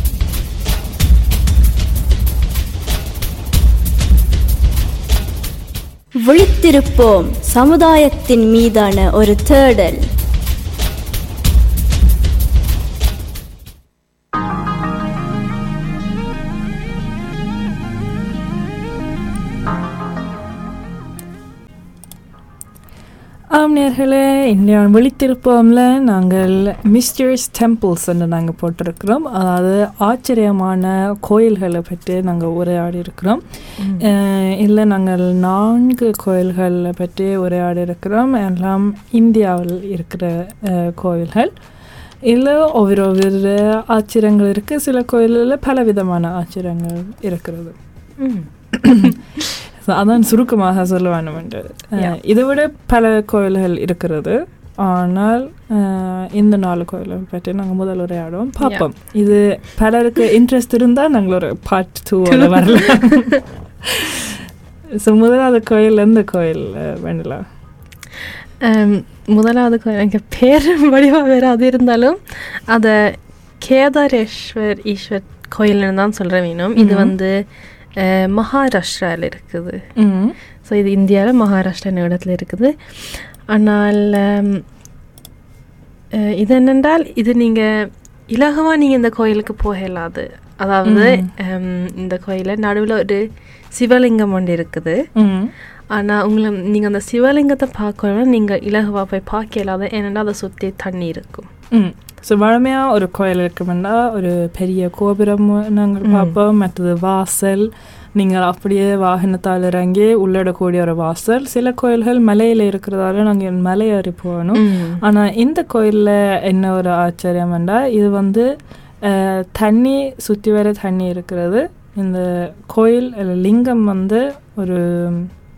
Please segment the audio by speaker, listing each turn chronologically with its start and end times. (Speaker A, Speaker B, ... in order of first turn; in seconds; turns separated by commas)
Speaker A: 6.2-10.0, Speaker B: 23.5-33.4, Speaker C: 33.8-34.1, Speaker B: 34.0-41.5, Speaker B: 42.2-47.8, Speaker C: 48.2-49.2, Speaker B: 48.8-49.1, Speaker B: 49.8-64.5, Speaker C: 62.3-63.4, Speaker B: 65.0-67.4, Speaker C: 68.6-77.3, Speaker B: 76.8-77.1, Speaker C: 78.0-79.8, Speaker B: 80.0-80.3, Speaker C: 80.6-84.6, Speaker C: 86.1-95.0, Speaker B: 90.8-91.3, Speaker B: 95.2-95.5, Speaker C: 95.9-101.5, Speaker B: 101.7-118.5, Speaker C: 106.0-106.4, Speaker C: 114.5-115.0, Speaker B: 119.0-125.3